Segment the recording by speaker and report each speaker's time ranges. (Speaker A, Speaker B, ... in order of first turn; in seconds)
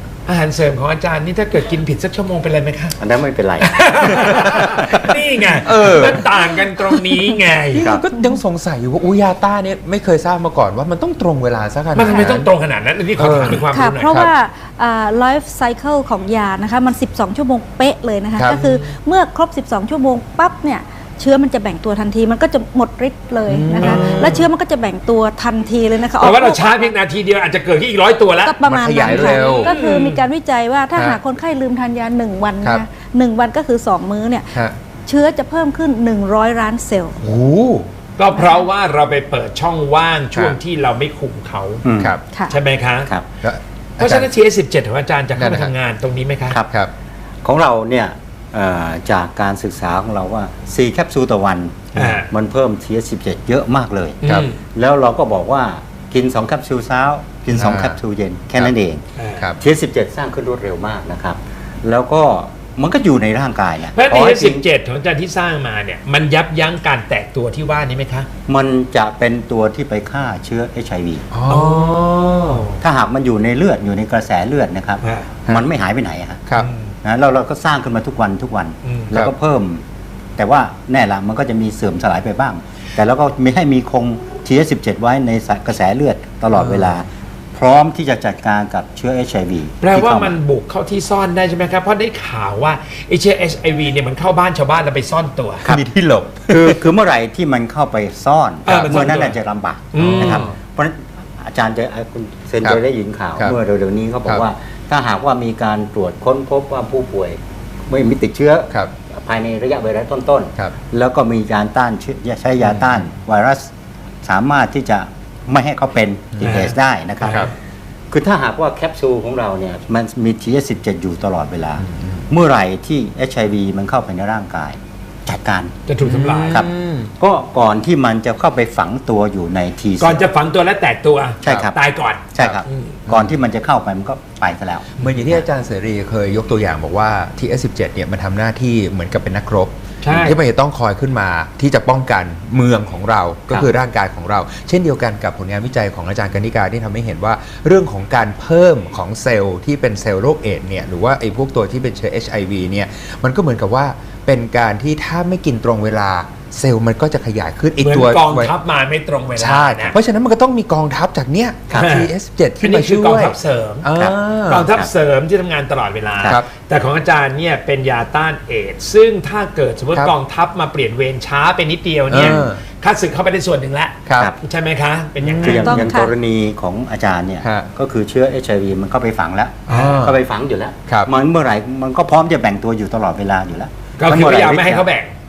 Speaker A: 0.3-3.0, 3.6-7.9, 11.9-14.2, 18.6-18.9, 23.8-24.5, 26.1-30.2, 38.2-41.9, 42.5-43.1, 44.0-46.6, 52.0-52.3, 54.2-54.6, 59.2-59.5, 63.9-68.3, 71.5-72.8, 75.0-75.3, 76.6-76.9, 78.8-79.2, 89.8-95.7, 98.7-99.4, 99.9-100.5, 116.4-117.5, 125.9-126.7, 130.0-133.0, 140.0-140.4, 157.8-160.0, 161.7-163.9, 164.5-175.9, 179.7-180.1, 184.0-185.1
Speaker B: 3.0-4.6, 41.8-42.2, 47.4-54.2, 54.7-59.0, 59.6-64.7, 68.5-71.2, 72.8-76.4, 77.0-79.8, 80.4-90.4, 96.5-113.7, 114.2-117.5, 118.1-125.8, 126.5-130.2, 131.4-131.8, 132.3-135.4, 175.4-184.9
Speaker C: 4.3-4.9, 5.5-6.3, 7.7-12.5, 13.2-14.3, 18.4-18.6, 23.5-24.4, 28.6-29.7, 30.9-31.2, 37.2-37.9, 43.4-44.3, 45.4-45.7, 57.5-58.0, 71.3-72.7, 86.5-87.0, 95.7-96.9, 100.0-100.5, 112.6-113.0, 116.4-116.7, 121.8-122.2, 126.0-127.1, 133.1-133.4, 135.0-158.5, 159.4-164.7, 172.1-172.6, 174.1-174.3, 175.2-175.9, 177.4-177.7, 179.7-180.2
Speaker D: 12.0-12.3, 13.7-26.9, 28.4-37.2, 38.3-38.7, 175.5-176.1